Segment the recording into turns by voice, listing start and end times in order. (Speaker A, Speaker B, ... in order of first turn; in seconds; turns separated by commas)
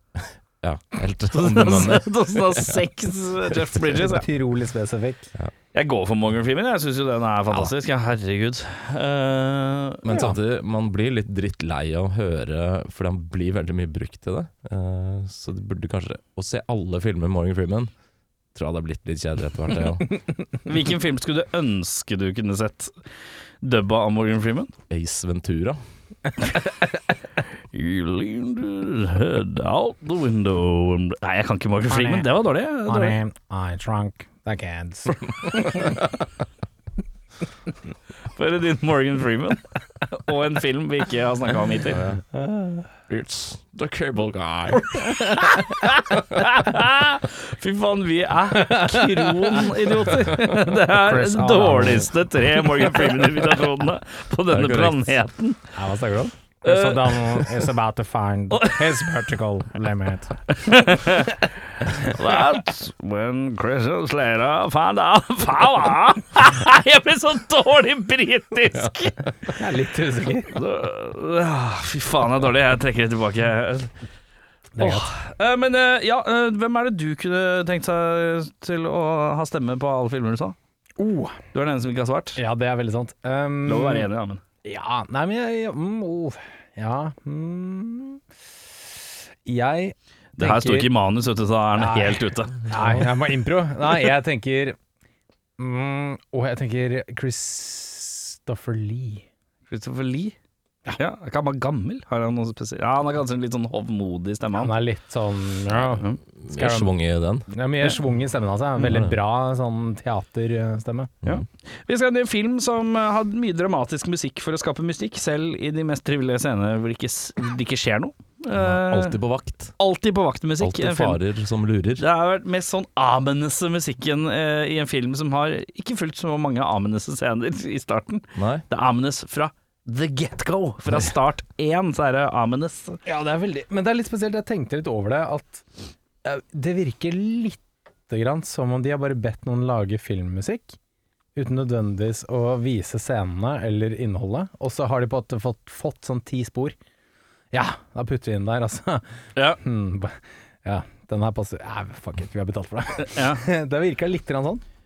Speaker A: 0.2-2.9, Speaker B: 1.3-4.2, Speaker C: 4.0-5.3, Speaker B: 5.7-10.0, Speaker A: 10.0-17.9, Speaker C: 10.1-10.4, Speaker A: 18.5-20.1, Speaker B: 20.6-22.9, Speaker B: 23.6-24.7, Speaker A: 24.9-25.8, Speaker B: 27.7-33.2, Speaker C: 31.9-32.3, Speaker C: 32.9-36.0, Speaker B: 38.3-42.0, Speaker A: 41.9-42.2, Speaker C: 42.3-42.9, Speaker A: 43.1-45.1, Speaker B: 45.0-55.7, Speaker C: 48.5-49.6, Speaker C: 50.9-52.1, Speaker A: 54.5-55.2, Speaker C: 55.8-60.3, Speaker B: 56.6-57.5, Speaker B: 58.5-59.1, Speaker B: 60.5-69.2, Speaker C: 69.5-70.6, Speaker B: 70.5-73.9, Speaker C: 74.8-75.1, Speaker B: 74.8-80.5, Speaker C: 81.0-81.4, Speaker B: 81.5-82.4, Speaker C: 82.4-84.1, Speaker B: 83.7-84.4, Speaker C: 84.6-88.2, Speaker C: 89.4-90.9, Speaker B: 90.4-92.7, Speaker C: 91.8-94.8, Speaker C: 95.6-99.2, Speaker B: 99.7-100.4, Speaker B: 101.0-104.7, Speaker C: 104.5-106.9, Speaker A: 106.4-107.5, Speaker C: 107.5-111.1, Speaker B: 111.2-119.2, Speaker A: 118.5-119.8, Speaker B: 119.8-121.2, Speaker A: 120.6-122.0, Speaker B: 122.0-133.0, Speaker A: 128.3-128.6, Speaker C: 133.0-135.6, Speaker C: 136.2-140.8, Speaker C: 141.4-146.8, Speaker C: 147.5-149.1, Speaker C: 149.6-154.6, Speaker B: 153.0-153.4